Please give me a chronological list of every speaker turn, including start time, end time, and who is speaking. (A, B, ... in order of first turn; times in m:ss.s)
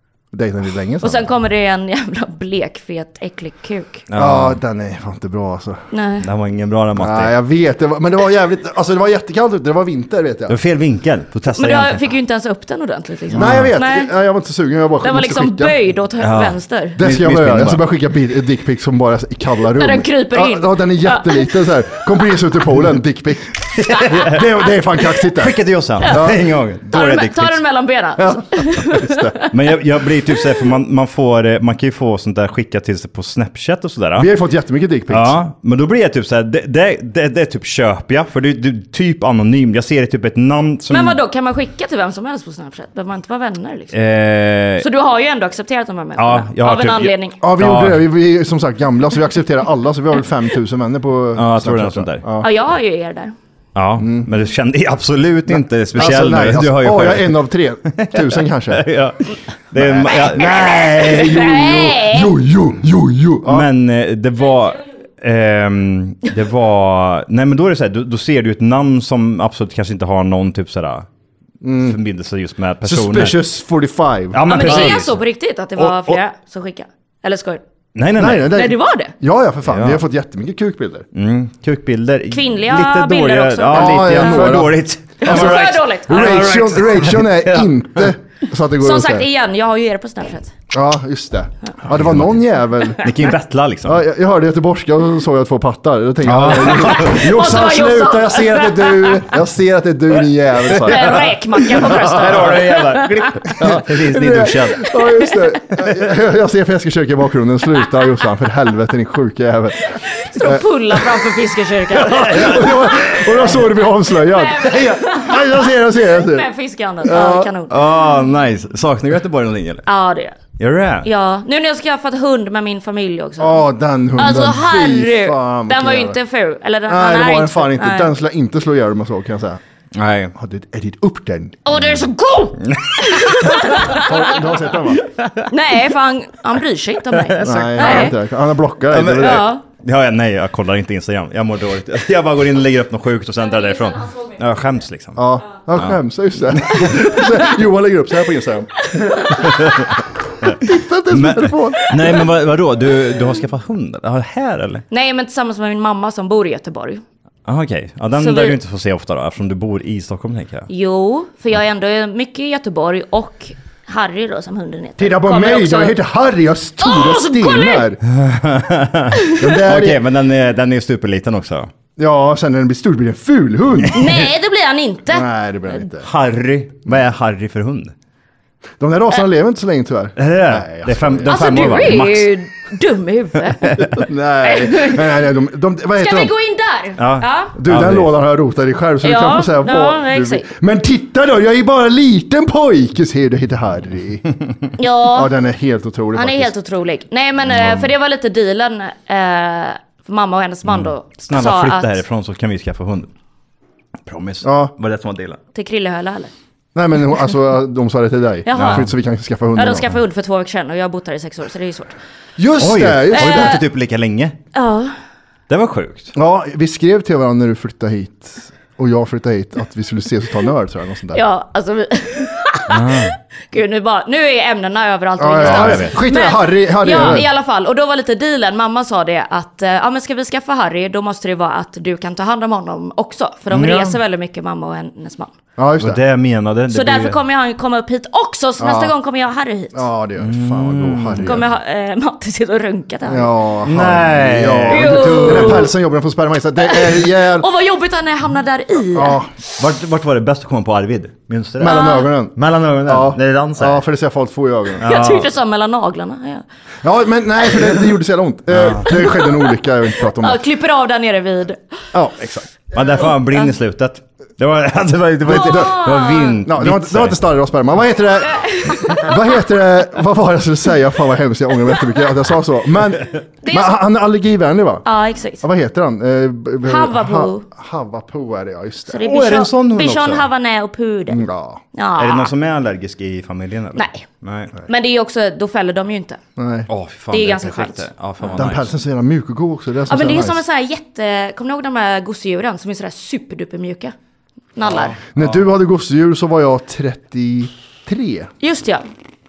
0:00.3-0:01.3 A
0:01.0-0:04.1 B
0:04.1-0:04.6 C
0:04.2-0:05.8 A
0:05.9-0:06.3 B
0:06.2-0:07.3 C
0:07.0-0:10.6 A
0:10.5-0:12.1 C
0:11.6-0:14.1 B
0:13.3-0:13.7 C
0:13.3-0:15.8 A
0:15.0-0:17.0 B
0:16.2-0:17.8 C
0:17.0-0:25.6 A
0:19.8-0:21.5 B
0:23.8-0:24.5 C
0:25.4-0:27.6 C
0:26.1-0:26.5 A
0:26.9-0:29.5 B
0:28.2-0:29.4 A
0:29.5-0:34.3 C
0:34.2-0:35.4 A
0:35.1-0:41.2 C
0:40.9-0:43.9 B
0:43.9-0:44.9 C
0:44.8-0:47.4 B
0:46.2-0:48.0 C
0:47.4-0:52.5 A
0:51.4-0:52.3 C
0:52.4-0:53.3 B
0:53.8-1:00.6 C
0:54.0-0:54.3 A
0:55.5-0:58.9 A
0:59.7-1:03.7 A
1:00.0-1:02.3 B
1:03.4-1:11.1 C
1:11.6-1:12.0 A
1:11.8-1:13.4 C
1:12.8-1:15.0 A
1:14.3-1:15.2 C
1:14.5-1:17.6 B
1:15.9-1:16.2 C
1:18.0-1:18.6 C
1:18.2-1:21.0 A
1:18.5-1:19.1 B
1:19.7-1:20.0 C
1:21.1-1:28.1 C
1:22.3-1:24.5 B
1:23.7-1:29.3 A
1:25.2-1:26.4 B
1:28.8-1:30.5 B
1:30.7-1:33.0 A
1:31.9-1:32.3 C
1:33.0-1:34.0 C
1:33.8-1:41.2 A
1:36.2-1:37.3 C
1:36.8-1:39.3 B
1:40.8-1:45.0 C
1:40.8-1:43.3 B
1:41.8-1:42.3 A
1:43.6-1:51.2 A
1:45.0-1:45.3 B
1:50.1-1:53.5 B
1:52.0-1:56.5 A
1:52.0-1:53.6 C
1:54.0-1:58.0 B
1:57.0-1:57.5 A
1:57.7-1:59.9 C
1:59.9-2:00.4 B
2:00.6-2:01.1 C
2:01.0-2:08.1 B
2:03.4-2:06.2 A
2:06.9-2:09.6 A
2:09.9-2:10.3 C
2:10.4-2:12.0 A
2:11.6-2:14.3 B
2:12.6-2:13.5 C
2:13.8-2:15.0 A
2:15.2-2:15.4 C
2:15.5-2:18.2 B
2:17.2-2:18.2 C
2:17.4-2:19.5 A
2:18.9-2:26.0 C
2:19.2-2:19.6 B
2:23.9-2:24.2 B
2:25.2-2:29.4 A
2:26.5-2:27.1 C
2:29.0-2:29.4 B
2:29.3-2:34.8 C
2:30.6-2:32.2 A
2:34.9-2:37.0 B
2:37.5-2:40.7 C
2:38.2-2:38.6 B
2:40.7-2:46.0 B
2:45.0-2:48.0 A
2:46.8-2:47.9 B
2:48.1-2:51.7 C
2:49.4-2:50.0 A
2:52.0-2:54.0 A
2:53.9-2:55.3 B
2:55.1-2:56.1 A
2:56.0-2:57.9 C
2:58.8-3:02.0 A
3:00.2-3:02.3 C
3:01.2-3:03.9 B
3:03.9-3:06.3 A
3:04.4-3:05.2 B
3:06.0-3:07.5 B
3:07.0-3:08.1 C
3:07.6-3:14.3 A
3:09.0-3:10.5 B
3:14.8-3:15.3 B
3:15.0-3:16.5 A
3:16.2-3:22.0 B
3:17.5-3:17.9 A
3:20.6-3:23.1 C
3:24.1-3:25.4 C
3:24.4-3:24.7 A
3:25.5-3:26.3 B
3:26.8-3:29.9 A
3:28.5-3:28.9 B
3:28.5-3:28.9 C
3:29.6-3:32.0 B
3:32.4-3:33.6 A
3:32.6-3:34.4 C
3:33.2-3:33.6 B
3:34.6-3:35.0 B
3:35.5-3:36.1 C
3:36.1-3:41.2 A
3:41.1-3:42.9 B
3:42.7-3:43.2 C
3:43.5-3:55.3 B
3:45.2-3:47.3 A
3:45.4-3:46.0 C
3:47.0-3:47.2 C
3:53.5-3:54.0 C
3:55.6-3:56.0 A
3:55.8-3:57.2 C
3:56.7-3:59.8 B
3:58.6-3:58.9 A
3:59.7-4:01.5 A
4:00.2-4:01.4 C
4:01.2-4:03.3 B
4:03.1-4:07.5 A
4:03.6-4:05.7 C
4:04.7-4:05.7 B
4:06.6-4:09.2 B
4:08.9-4:09.3 A
4:09.6-4:13.8 C
4:11.6-4:14.9 A
4:11.6-4:12.1 B
4:14.8-4:15.3 C
4:14.8-4:16.4 B
4:16.8-4:20.4 A
4:18.5-4:18.9 C
4:18.9-4:19.2 B
4:20.2-4:21.6 B
4:21.9-4:22.4 A
4:22.7-4:27.2 C
4:25.3-4:25.8 A
4:25.3-4:26.4 B
4:26.4-4:34.8 A
4:28.3-4:29.1 B
4:33.4-4:33.8 B
4:34.8-4:35.4 B
4:35.4-4:39.1 A
4:36.6-4:37.5 B
4:38.9-4:42.3 B
4:39.0-4:40.3 C
4:41.1-4:41.6 A
4:42.0-4:44.5 C
4:43.8-4:44.0 B
4:44.7-4:46.2 B
4:46.4-4:46.7 A
4:46.7-4:48.7 C
4:47.1-4:48.4 B
4:48.4-4:50.4 A
4:49.9-4:53.9 B
4:54.6-4:55.0 B
4:54.7-4:55.4 C
4:55.1-4:58.3 A
4:58.4-4:58.8 B